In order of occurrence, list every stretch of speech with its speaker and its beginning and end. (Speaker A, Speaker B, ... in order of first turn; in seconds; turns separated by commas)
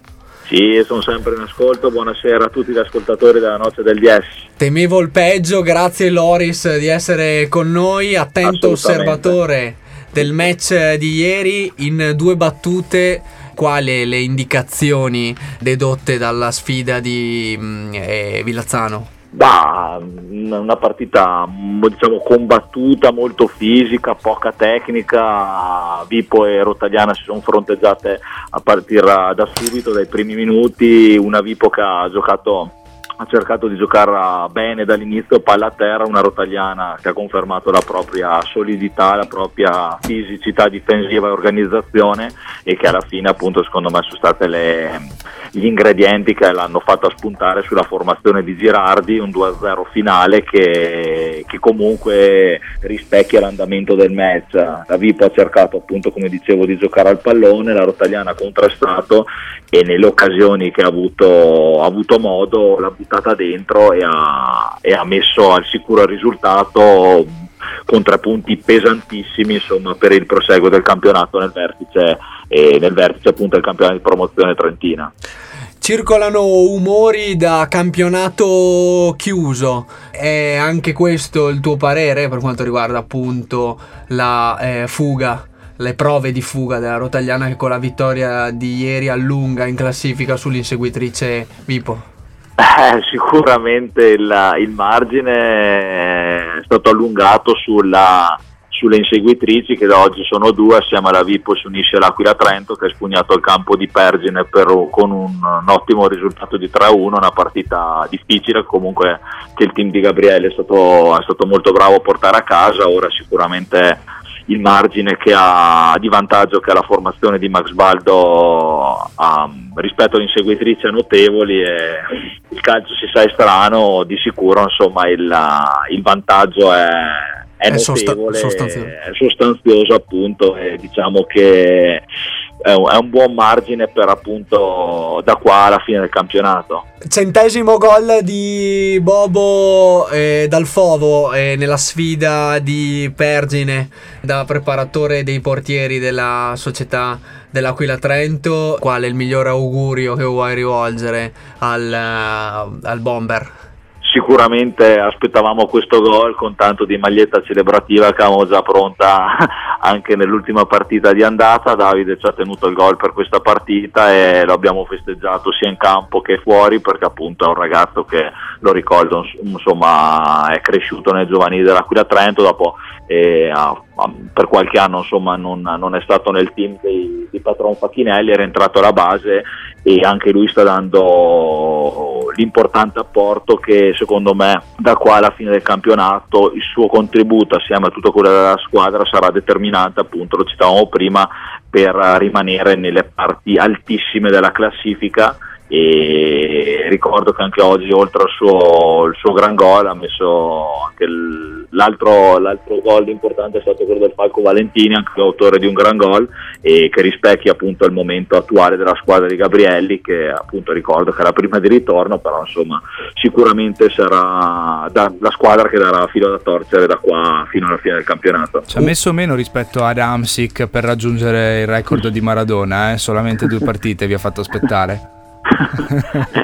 Speaker A: 0.5-4.4, Speaker B: 4.6-19.1, Speaker A: 8.4-9.4, Speaker A: 19.3-67.3, Speaker A: 67.9-75.1, Speaker B: 75.8-92.0, Speaker A: 92.6-132.0, Speaker B: 127.7-128.9, Speaker A: 132.6-136.8, Speaker B: 137.1-153.5, Speaker A: 154.0-218.7, Speaker C: 218.7-225.1, Speaker C: 225.8-226.2